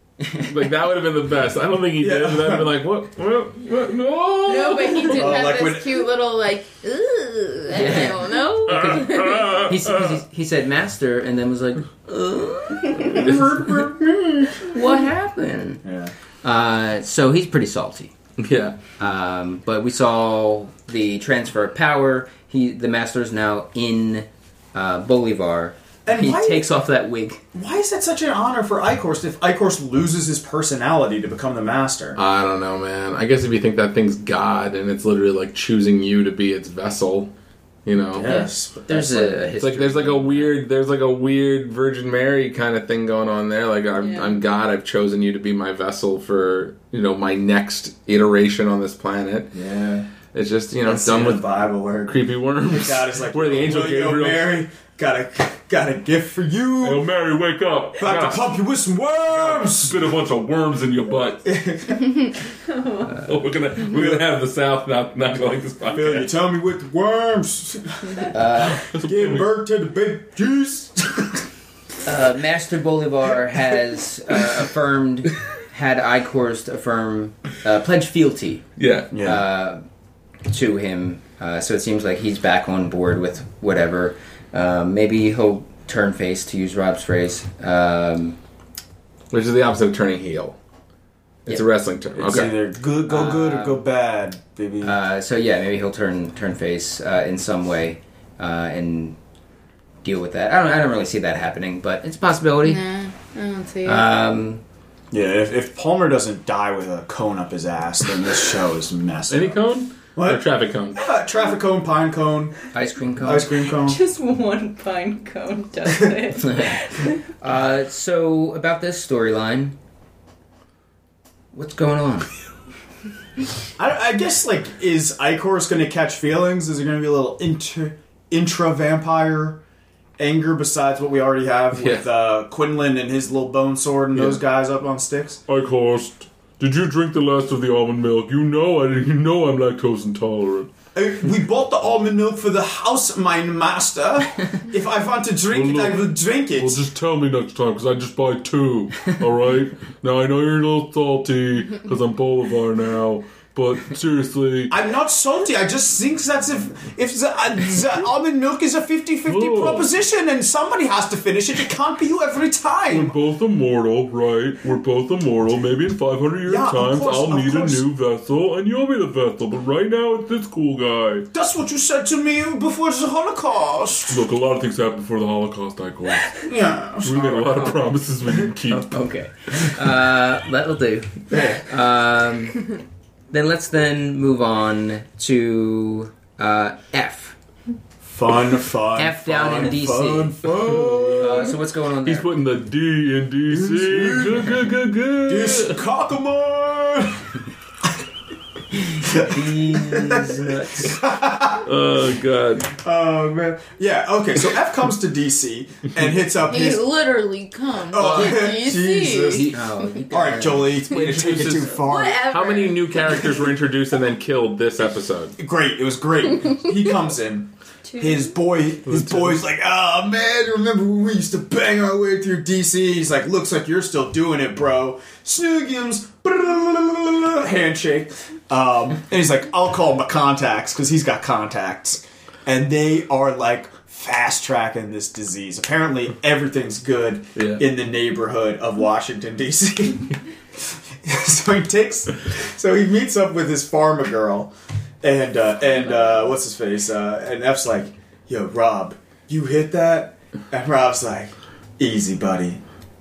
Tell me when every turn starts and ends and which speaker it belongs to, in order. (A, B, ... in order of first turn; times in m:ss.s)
0:00.3-0:05.4 A
0:02.0-0:02.7 B
0:04.4-0:09.6 C
0:05.1-0:06.0 B
0:07.7-0:13.4 D
0:08.7-0:10.2 A
0:13.1-0:14.6 B
0:14.6-0:15.8 D
0:15.8-0:16.1 B
0:16.4-0:18.1 D
0:18.4-0:18.8 A
0:19.0-0:27.4 D
0:26.0-0:26.7 B
0:27.5-0:32.2 B
0:32.2-0:37.3 A
0:37.8-0:38.4 A
0:38.1-0:39.2 B
0:38.2-0:40.6 D
0:38.9-0:49.6 A
0:44.0-0:44.4 E
0:49.5-0:50.1 B
0:50.3-0:51.5 A
0:50.8-0:57.1 B
0:52.0-0:54.6 A
0:56.8-0:58.5 A
0:58.0-1:00.1 B
0:59.2-1:01.4 A
1:01.4-1:02.3 B
1:02.7-1:03.2 E
1:03.1-1:06.3 A
1:03.9-1:04.2 B
1:05.9-1:11.4 B
1:08.3-1:08.8 D
1:08.8-1:09.5 A
1:12.0-1:18.6 D
1:18.8-1:19.1 A
1:19.1-1:19.4 B
1:19.2-1:19.8 D
1:20.5-1:28.4 D
1:29.3-1:30.6 A
1:31.4-1:32.5 A
1:32.1-1:35.0 B
1:33.0-1:33.8 D
1:34.8-1:39.2 D
1:40.0-1:42.8 D
1:42.6-1:44.0 C
1:43.8-1:44.6 D
1:45.1-1:52.6 B
1:49.3-1:51.0 A
1:52.7-1:53.5 D
1:53.2-1:54.0 B
1:53.8-1:57.2 E
1:56.4-1:56.9 D
1:57.4-1:59.8 D
2:01.5-2:02.3 D
2:03.8-2:09.6 B
2:10.2-2:15.4 B
2:11.7-2:12.1 A
2:14.1-2:14.4 A
2:15.5-2:20.7 A
2:20.9-2:26.8 B
2:25.5-2:26.0 A
2:26.6-2:34.7 A
2:34.7-2:43.2 B
2:39.3-2:39.9 A
2:42.9-2:51.3 A
2:46.4-2:47.9 B
2:51.3-2:54.3 B
2:54.1-2:56.3 A
2:56.3-2:57.8 B
2:57.0-2:58.8 A
2:58.6-3:02.6 D
3:01.3-3:01.6 B
3:03.3-3:07.4 D
3:08.0-3:11.6 B
3:09.0-3:10.4 D
3:10.8-3:11.1 A
3:11.1-3:12.3 D
3:12.0-3:15.8 A
3:13.5-3:14.6 B
3:15.2-3:17.4 B
3:18.9-3:21.0 D
3:19.0-3:21.7 B
3:21.6-3:22.7 A
3:22.7-3:26.8 B
3:26.4-3:29.5 C
3:27.9-3:29.5 B
3:28.0-3:28.4 A
3:29.5-3:30.8 D
3:30.1-3:32.2 B
3:30.9-3:35.3 A
3:31.8-3:33.5 C
3:35.4-4:00.2 B
3:37.9-3:38.3 E
3:38.8-3:39.4 A
3:57.4-3:57.6 A
4:00.9-4:12.6 B